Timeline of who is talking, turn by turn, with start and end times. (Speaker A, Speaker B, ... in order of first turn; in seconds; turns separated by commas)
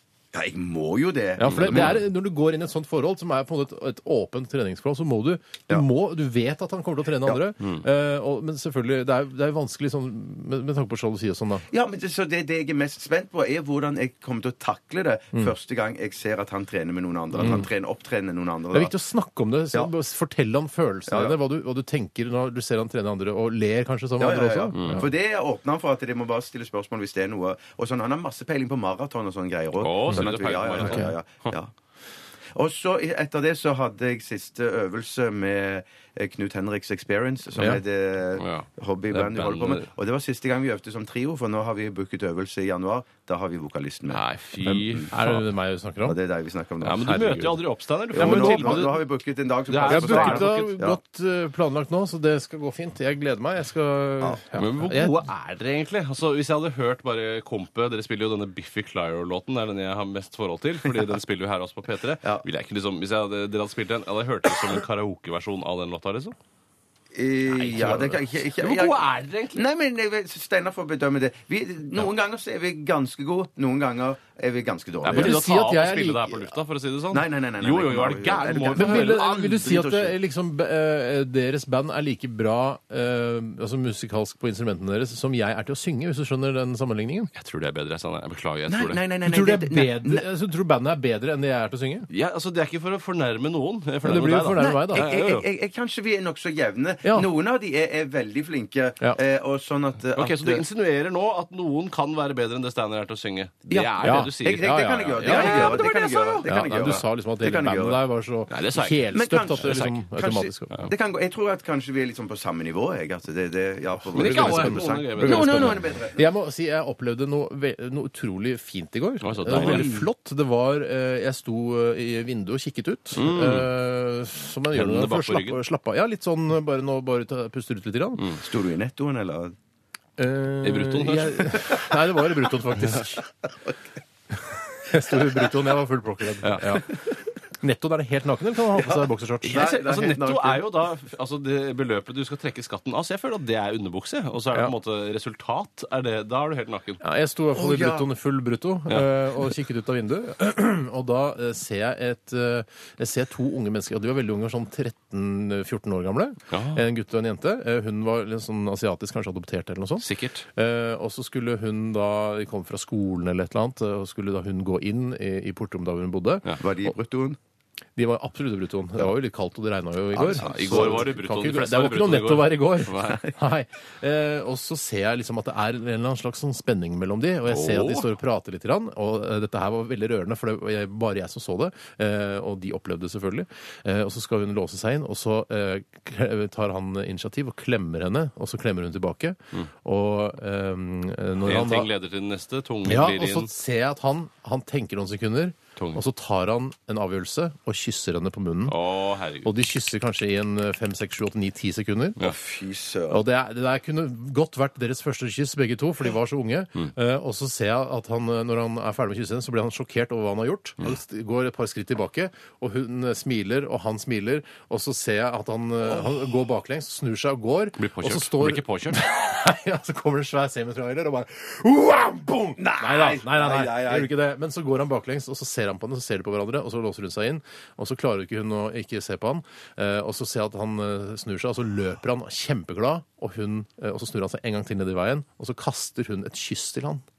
Speaker A: 0.3-2.0, Speaker B: 1.4-11.7, Speaker C: 1.5-2.0, Speaker A: 11.7-18.9, Speaker B: 17.4-17.7, Speaker B: 18.7-25.1, Speaker A: 21.1-21.4, Speaker A: 24.2-31.7, Speaker C: 24.8-25.0, Speaker C: 29.8-31.1, Speaker B: 30.8-31.1, Speaker A: 32.5-45.1, Speaker C: 38.4-39.9, Speaker C: 44.1-45.4, Speaker B: 45.1-46.2, Speaker A: 46.0-47.4, Speaker C: 46.8-49.0, Speaker B: 47.0-47.6, Speaker A: 48.1-51.0, Speaker B: 48.2-48.9, Speaker C: 49.7-50.8, Speaker B: 49.9-55.3, Speaker C: 54.5-66.3, Speaker A: 67.1-75.4, Speaker C: 67.6-69.6, Speaker C: 75.0-79.3, Speaker B: 75.1-76.5, Speaker A: 77.1-80.2, Speaker B: 78.8-87.3, Speaker C: 87.3-89.0, Speaker A: 88.7-90.3, Speaker B: 89.2-92.1, Speaker C: 92.1-95.5, Speaker B: 94.0-95.1, Speaker A: 94.5-100.6, Speaker C: 100.1-107.0, Speaker A: 103.7-108.0, Speaker B: 104.0-105.8, Speaker B: 106.5-110.8, Speaker C: 108.5-110.0, Speaker A: 109.1-116.3, Speaker C: 114.1-115.8, Speaker B: 114.1-128.2, Speaker C: 119.2-119.9, Speaker A: 119.5-120.1, Speaker C: 123.2-123.7, Speaker C: 124.7-125.6, Speaker A: 128.4-129.6, Speaker B: 130.2-133.3, Speaker C: 130.6-131.7, Speaker B: 134.4-137.0, Speaker A: 135.1-135.4, Speaker C: 136.4-136.8, Speaker B: 137.6-139.8, Speaker A: 138.8-140.7, Speaker C: 139.4-147.0, Speaker B: 147.0-166.5, Speaker A: 147.5-148.1, Speaker C: 156.5-156.8, Speaker C: 160.0-160.5, Speaker A: 166.6-167.4, Speaker B: 168.0-191.9, Speaker A: 170.2-171.1, Speaker C: 170.2-173.2, Speaker C: 177.5-178.1, Speaker C: 191.4-193.5, Speaker B: 192.8-198.8, Speaker C: 195.8-196.0, Speaker C: 198.7-199.5, Speaker B: 199.4-202.2, Speaker A: 202.2-203.2, Speaker B: 203.1-237.0, Speaker C: 217.8-219.0, Speaker A: 222.6-224.1